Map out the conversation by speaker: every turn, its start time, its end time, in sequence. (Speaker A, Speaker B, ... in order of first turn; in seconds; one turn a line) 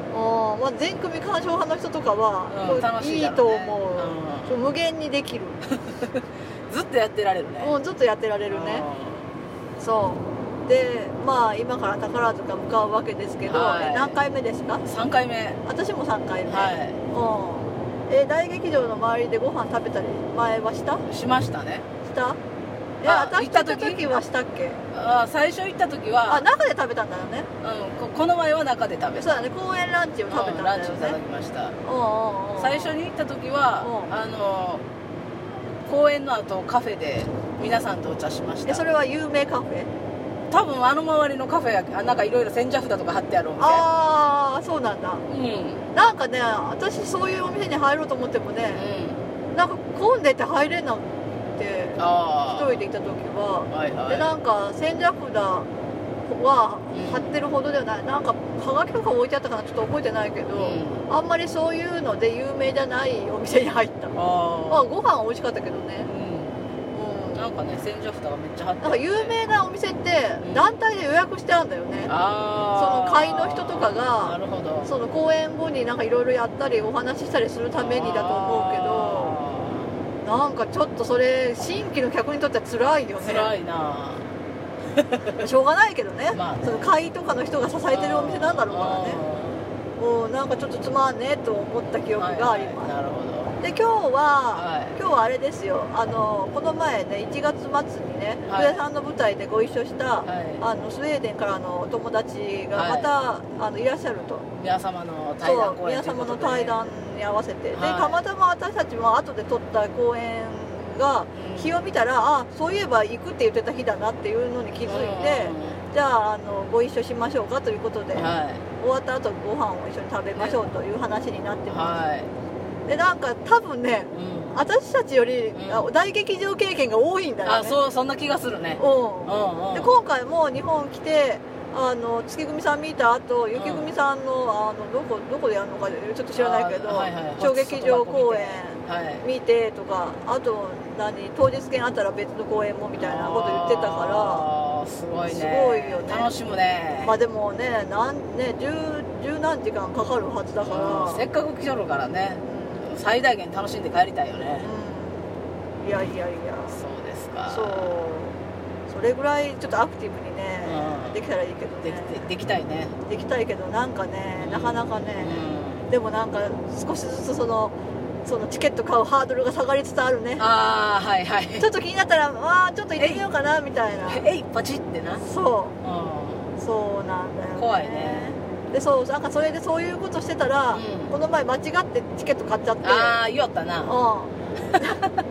Speaker A: 0.1-5.6
Speaker B: 2.5-4.6
Speaker B: 5.8-7.8
Speaker A: 7.6-8.8
Speaker B: 8.5-9.3
Speaker A: 9.8-14.8
Speaker B: 13.5-14.2
Speaker B: 14.8-15.6
Speaker A: 15.7-21.1
Speaker B: 16.5-17.0
Speaker B: 21.1-21.9
Speaker A: 22.0-22.4
Speaker A: 23.0-24.8
Speaker B: 23.1-24.0
Speaker B: 24.9-26.5
Speaker A: 26.3-27.5
Speaker B: 27.6-29.5
Speaker A: 29.2-31.2
Speaker B: 30.3-31.8
Speaker A: 31.8-33.0
Speaker B: 32.6-34.8
Speaker A: 33.8-34.1
Speaker B: 35.9-38.8
Speaker A: 38.7-39.9
Speaker B: 40.5-43.9
Speaker A: 43.6-45.2
Speaker B: 45.3-45.9
Speaker A: 45.9-48.8
Speaker B: 48.8-49.2
Speaker A: 49.5-55.7
Speaker B: 52.0-52.8
Speaker B: 53.7-54.3
Speaker A: 56.3-64.2
Speaker B: 56.9-57.3
Speaker B: 60.6-61.1
Speaker B: 64.1-64.9
Speaker A: 64.7-66.1
Speaker B: 66.0-66.6
Speaker A: 66.9-67.5
Speaker B: 67.3-69.3
Speaker A: 68.8-72.1
Speaker B: 70.4-70.7
Speaker B: 72.1-75.0
Speaker A: 72.8-79.4
Speaker B: 77.8-80.0
Speaker A: 80.2-83.5
Speaker B: 83.2-84.3
Speaker B: 85.0-85.4
Speaker A: 85.4-89.2
Speaker B: 86.3-86.9
Speaker B: 87.9-89.7
Speaker A: 90.0-92.9
Speaker B: 92.2-93.6
Speaker A: 93.6-104.5
Speaker B: 94.5-95.0
Speaker B: 98.5-98.8
Speaker B: 100.2-100.6
Speaker B: 102.7-103.1
Speaker B: 104.6-106.8
Speaker A: 105.4-122.0
Speaker B: 107.7-108.2
Speaker B: 111.3-111.8
Speaker B: 114.8-115.8
Speaker B: 118.2-118.6
Speaker B: 120.3-120.6
Speaker B: 121.7-122.3
Speaker A: 122.9-127.8
Speaker B: 124.1-124.6
Speaker B: 125.5-125.9
Speaker B: 127.5-129.9
Speaker A: 128.8-144.5
Speaker B: 133.6-133.9
Speaker B: 136.4-139.2
Speaker B: 143.0-147.2
Speaker A: 145.3-146.3
Speaker A: 147.0-151.2
Speaker B: 150.6-154.7
Speaker A: 152.4-152.9
Speaker A: 154.6-155.3
Speaker A: 155.8-156.8
Speaker B: 156.7-158.0
Speaker A: 157.5-162.3
Speaker B: 160.6-161.2
Speaker B: 161.8-162.9
Speaker A: 163.1-165.4
Speaker B: 164.4-165.9
Speaker A: 165.9-170.4
Speaker B: 170.4-171.7
Speaker A: 171.6-174.2
Speaker B: 174.1-175.2
Speaker A: 175.2-175.8
Speaker B: 175.8-176.5
Speaker A: 176.6-183.2
Speaker B: 177.6-178.4
Speaker B: 180.7-181.2
Speaker B: 182.8-183.9
Speaker A: 183.8-185.1
Speaker B: 184.7-185.0